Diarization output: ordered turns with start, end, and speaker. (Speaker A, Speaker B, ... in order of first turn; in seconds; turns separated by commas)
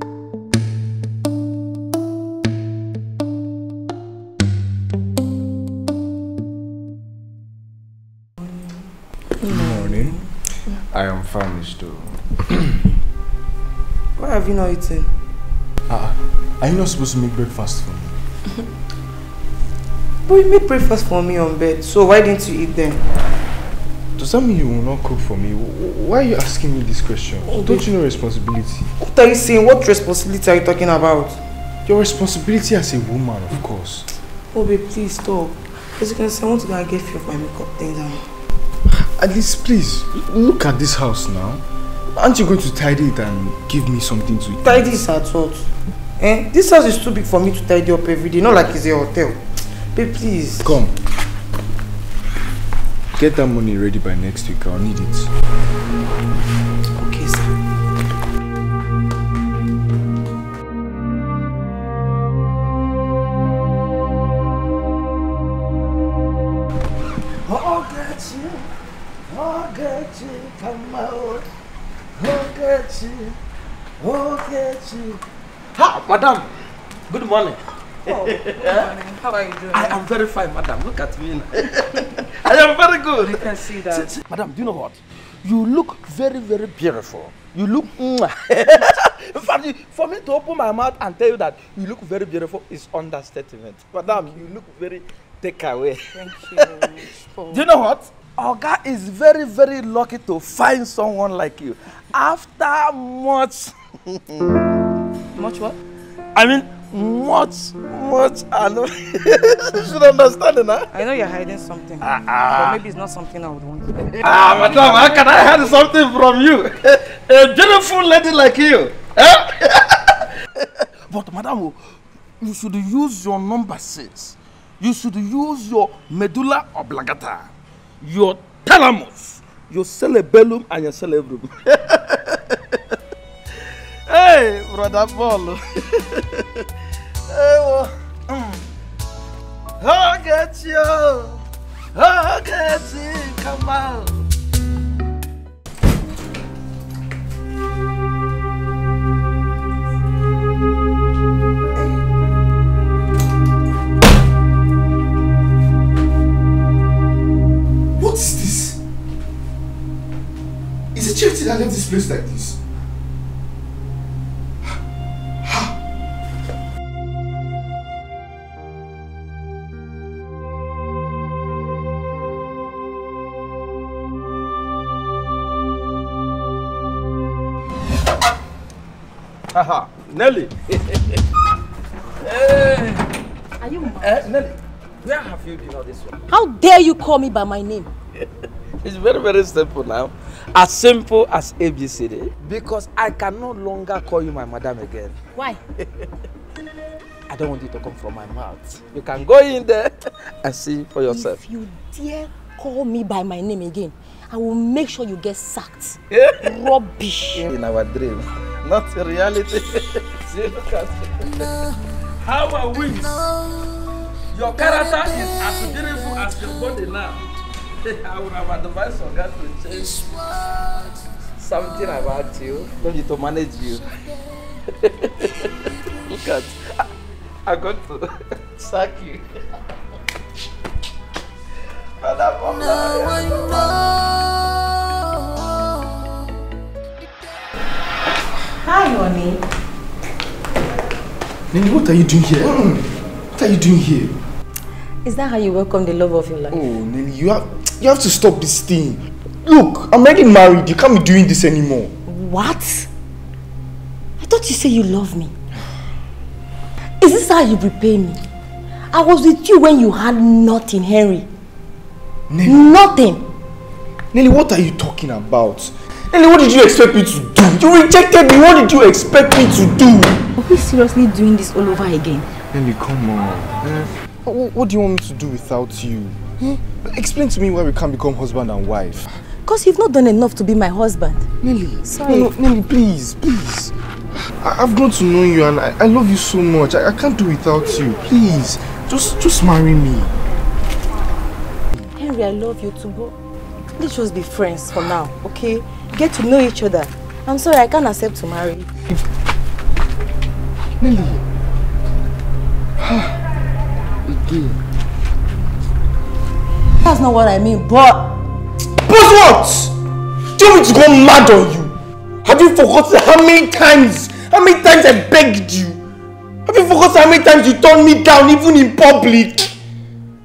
Speaker A: 9.4-10.3, Speaker B: 9.4-12.8, Speaker A: 14.2-15.1, Speaker B: 15.9-18.2, Speaker A: 20.2-23.0, Speaker B: 24.2-28.9, Speaker A: 27.5-27.9, Speaker A: 29.0-31.4, Speaker B: 31.9-34.1, Speaker A: 34.5-38.3, Speaker B: 38.9-44.9, Speaker A: 44.6-45.7, Speaker A: 46.2-50.8, Speaker B: 50.6-51.0, Speaker B: 53.1-55.3, Speaker A: 57.0-57.5, Speaker C: 67.5-68.7, Speaker C: 69.3-71.5, Speaker C: 72.2-73.4, Speaker C: 74.0-75.2, Speaker C: 75.8-76.5, Speaker C: 77.1-78.9, Speaker A: 78.0-80.0, Speaker C: 79.7-96.8, Speaker A: 83.2-84.1, Speaker A: 96.1-97.6, Speaker C: 97.5-104.4, Speaker A: 105.3-105.8, Speaker C: 106.3-110.9, Speaker A: 110.9-114.3, Speaker C: 112.0-112.8, Speaker C: 114.2-121.8, Speaker C: 122.4-127.5, Speaker C: 128.0-133.0, Speaker C: 134.1-136.6, Speaker C: 137.3-138.6, Speaker C: 139.8-141.4, Speaker C: 141.9-144.1, Speaker B: 157.9-158.8, Speaker B: 160.9-162.6, Speaker B: 165.4-165.7, Speaker C: 179.5-181.2, Speaker C: 182.2-183.0, Speaker D: 183.6-184.2, Speaker C: 183.8-186.2, Speaker D: 186.3-187.9, Speaker C: 188.8-195.2, Speaker C: 195.8-196.1, Speaker C: 197.3-201.4, Speaker D: 201.1-207.5, Speaker C: 206.1-206.7, Speaker C: 207.3-211.3, Speaker E: 211.2-211.9, Speaker C: 212.2-213.2, Speaker E: 212.7-213.9, Speaker C: 214.3-217.2, Speaker C: 217.8-220.0, Speaker E: 219.8-220.9, Speaker C: 221.4-223.8, Speaker E: 224.0-224.5, Speaker C: 224.8-225.6, Speaker E: 225.2-226.1, Speaker C: 226.1-226.8, Speaker C: 227.4-229.2, Speaker C: 232.0-233.7, Speaker E: 232.5-236.3, Speaker D: 238.6-239.4, Speaker B: 241.5-244.2, Speaker D: 245.0-246.6, Speaker B: 246.5-251.9, Speaker D: 252.1-252.9, Speaker D: 254.2-255.3, Speaker D: 257.0-258.2, Speaker D: 258.9-261.3, Speaker B: 262.3-262.7, Speaker D: 262.4-263.3, Speaker B: 264.1-270.2, Speaker D: 270.4-272.3, Speaker B: 272.5-279.2, Speaker D: 279.4-281.3, Speaker B: 281.4-283.7, Speaker D: 281.8-282.3, Speaker B: 284.3-290.1, Speaker D: 291.9-293.1, Speaker D: 293.8-298.7, Speaker B: 300.8-301.2, Speaker B: 302.8-303.1, Speaker B: 304.1-304.6, Speaker D: 306.8-308.1, Speaker B: 308.8-309.7, Speaker B: 310.4-315.8, Speaker B: 316.4-319.5